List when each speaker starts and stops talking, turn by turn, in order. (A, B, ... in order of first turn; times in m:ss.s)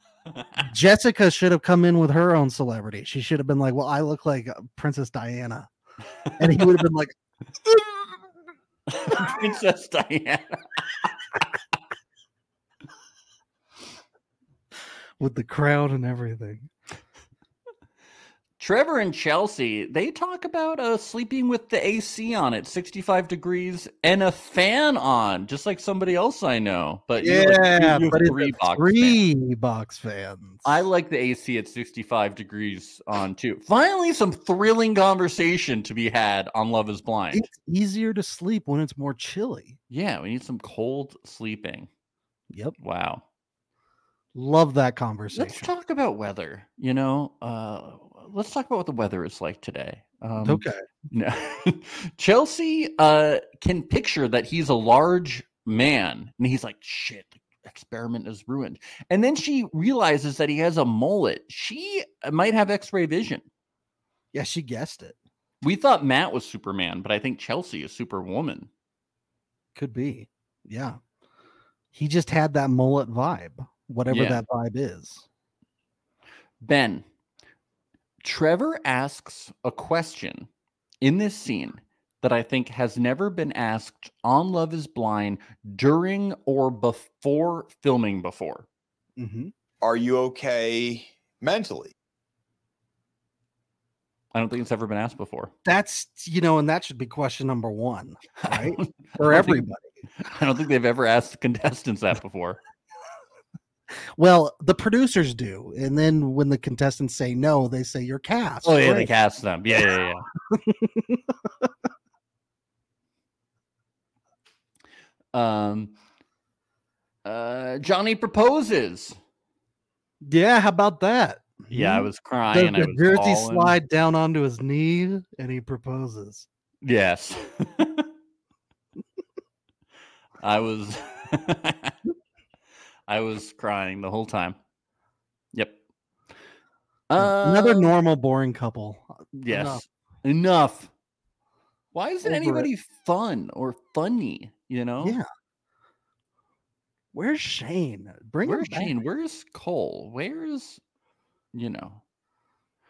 0:00.6-0:05.7 A
0:06.4-0:07.1 A
0:08.9-0:11.1 B
0:15.2-0:16.7 A
0:18.6-0:29.2 B
0:27.2-0:30.8 A
0:30.6-0:37.5 B
0:37.3-0:39.8 A
0:39.9-0:41.9 B
0:42.5-0:42.8 A
0:42.8-0:43.2 B
0:44.4-0:45.7 A
0:45.3-1:03.4 B
0:50.4-0:50.8 A
1:04.3-1:05.2 A
1:05.6-1:08.7 B
1:09.8-1:11.0 A
1:11.9-1:15.3 A
1:14.1-1:14.4 B
1:16.6-1:17.0 B
1:18.2-1:20.5 B
1:21.0-1:28.7 B
1:29.2-1:29.5 A
1:29.8-1:31.9 C
1:34.3-1:35.5 B
1:35.6-1:39.9 A
1:38.4-1:39.7 B
1:40.2-1:42.6 B
1:44.2-1:49.1 A
1:48.6-1:50.3 B
1:50.5-1:51.7 A
1:55.3-1:56.0 B
1:57.2-1:59.2 B
2:00.2-2:06.5 A
2:01.7-2:03.8 B
2:06.8-2:08.1 B
2:10.4-2:12.0 B
2:13.1-2:14.6 B
2:17.1-2:17.9 B
2:17.2-2:19.8 A
2:19.3-2:20.9 B
2:21.9-2:25.2 B
2:22.2-2:22.7 A
2:25.0-2:25.2 A
2:27.1-2:28.9 A
2:28.4-2:30.8 B
2:31.5-2:32.0 B